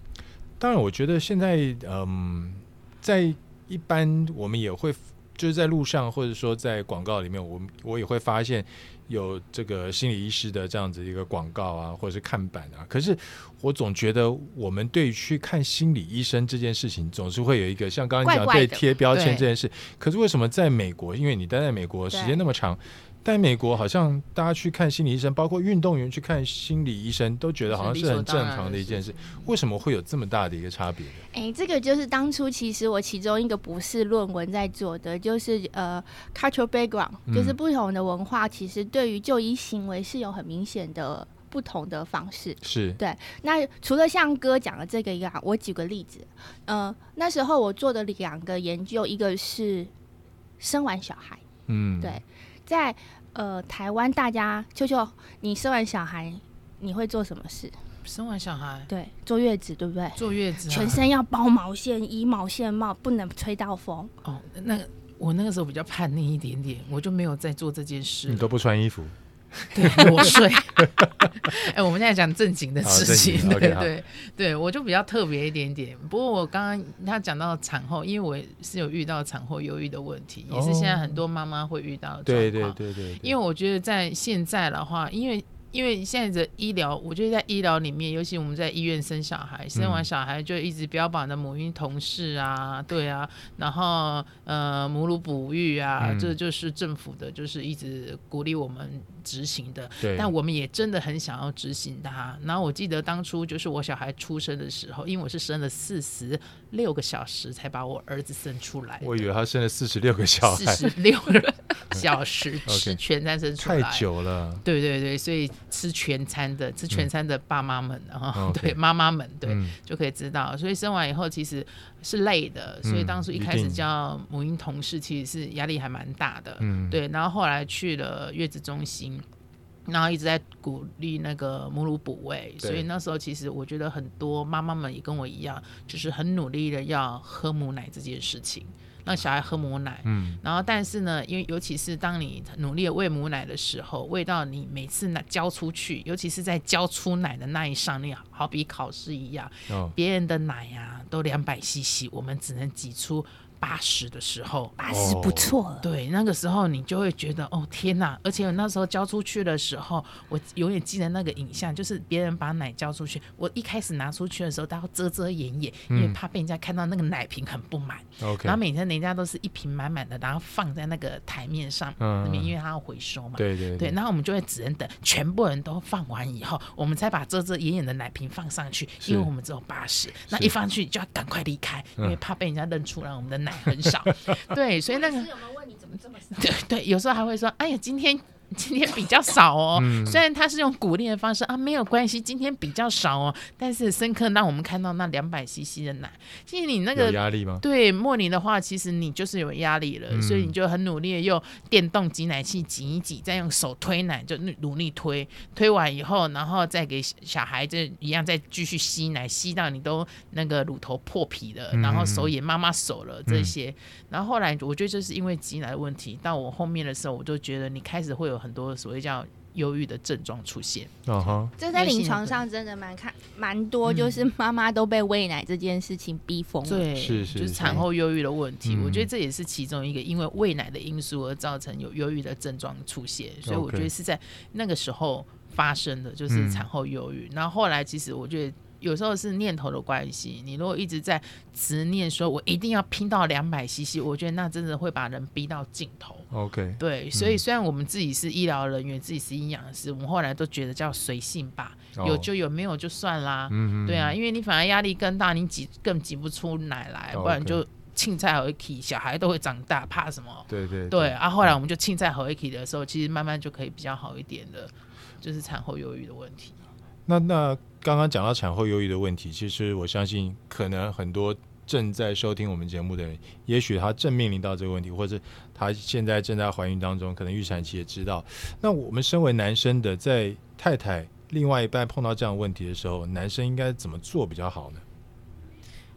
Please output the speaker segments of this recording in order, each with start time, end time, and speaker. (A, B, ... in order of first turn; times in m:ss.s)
0:00.6-0:31.2 A
0:18.2-0:18.8 B
0:19.1-0:19.4 C
0:22.1-0:22.4 B
0:27.7-0:29.5 C
0:31.3-0:49.9 B
0:37.3-0:37.6 A
0:42.6-0:43.0 A
0:50.6-0:51.4 B
0:51.7-0:52.2 A
0:52.0-0:57.7 B
0:58.0-0:58.9 C
0:58.9-1:04.1 B
1:00.2-1:01.0 C
1:04.2-1:08.5 C
1:08.3-1:11.5 A
1:09.7-1:49.2 C
1:12.8-1:13.9 A
1:20.5-1:21.2 A
1:22.2-1:23.3 A
1:29.7-1:30.1 A
1:36.0-1:36.3 A
1:40.0-1:40.3 A
1:49.0-1:50.9 A
1:50.4-1:54.1 C
1:52.6-1:53.0 A
1:53.6-1:54.6 A
1:54.6-2:09.2 C
1:58.3-1:58.8 A
1:59.4-1:59.8 A
2:02.8-2:03.8 A
2:06.6-2:07.0 A
2:09.8-2:34.8 C
2:20.0-2:20.4 A
2:29.7-2:29.9 A
2:34.8-2:35.8 B
2:34.9-2:35.5 A
2:35.8-3:05.4 C
2:45.9-2:46.2 A
2:48.2-2:48.6 A
2:52.0-2:52.5 A
2:53.4-2:54.0 A
2:59.0-2:59.3 A
3:03.8-3:04.4 A
3:04.9-3:06.4 B
3:06.3-3:42.4 C
3:09.7-3:10.2 A
3:16.9-3:17.6 A
3:20.1-3:20.5 A
3:31.7-3:32.3 A
3:33.3-3:33.5 A
3:41.0-3:41.5 A
3:41.6-3:46.9 B
3:43.8-3:44.2 C
3:46.6-4:26.6 C
3:46.9-3:47.8 A
3:48.6-3:49.1 A
3:53.4-3:53.9 A
3:56.3-3:56.7 A
4:06.3-4:07.4 A
4:12.0-4:12.3 A
4:13.5-4:14.2 A
4:17.1-4:17.6 A
4:20.5-4:21.5 A
4:27.0-4:44.8 A